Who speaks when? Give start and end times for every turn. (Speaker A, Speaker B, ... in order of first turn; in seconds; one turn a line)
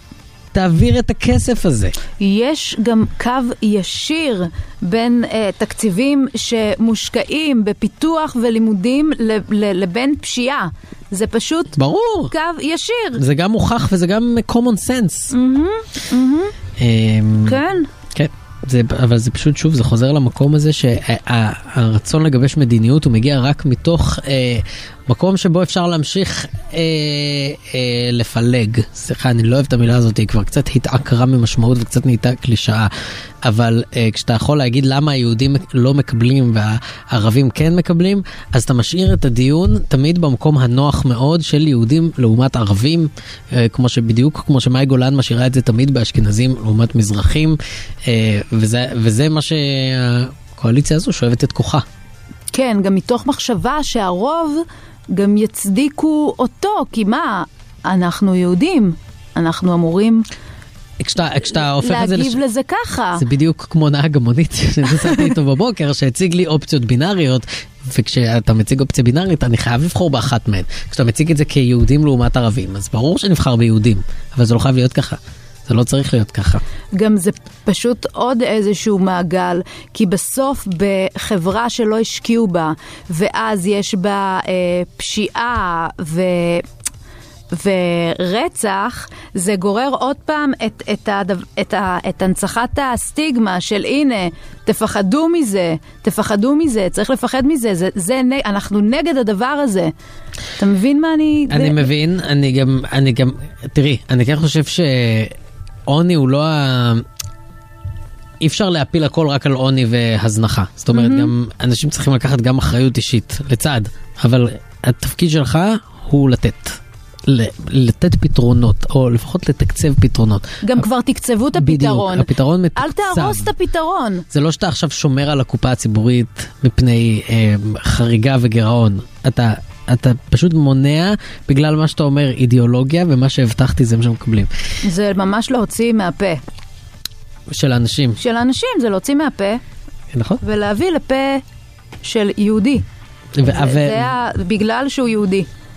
Speaker A: 0.5-1.9
Speaker B: 2.2-11.8
Speaker A: 11.8-12.3
Speaker B: 12.3-13.2
Speaker A: 13.2-15.3
Speaker B: 15.3-16.5
Speaker A: 16.8-17.6
Speaker B: 17.4-17.9
Speaker A: 18.1-32.9
Speaker A: 33.4-51.9
Speaker B: 52.5-60.2
Speaker A: 61.0-62.4
Speaker B: 61.5-63.2
Speaker A: 63.2-76.6
Speaker B: 77.0-86.7
Speaker B: 87.5-99.9
Speaker B: 100.6-101.9
Speaker A: 101.5-105.3
Speaker A: 105.9-107.1
Speaker A: 108.4-120.8
Speaker B: 110.9-111.3
Speaker B: 120.6-124.2
Speaker A: 121.6-123.5
Speaker A: 124.3-134.5
Speaker B: 134.8-136.4
Speaker A: 137.5-138.2
Speaker B: 138.2-139.6
Speaker A: 140.1-140.4
Speaker B: 140.4-141.4
Speaker B: 142.0-142.8
Speaker A: 143.3-144.1
Speaker B: 143.4-145.5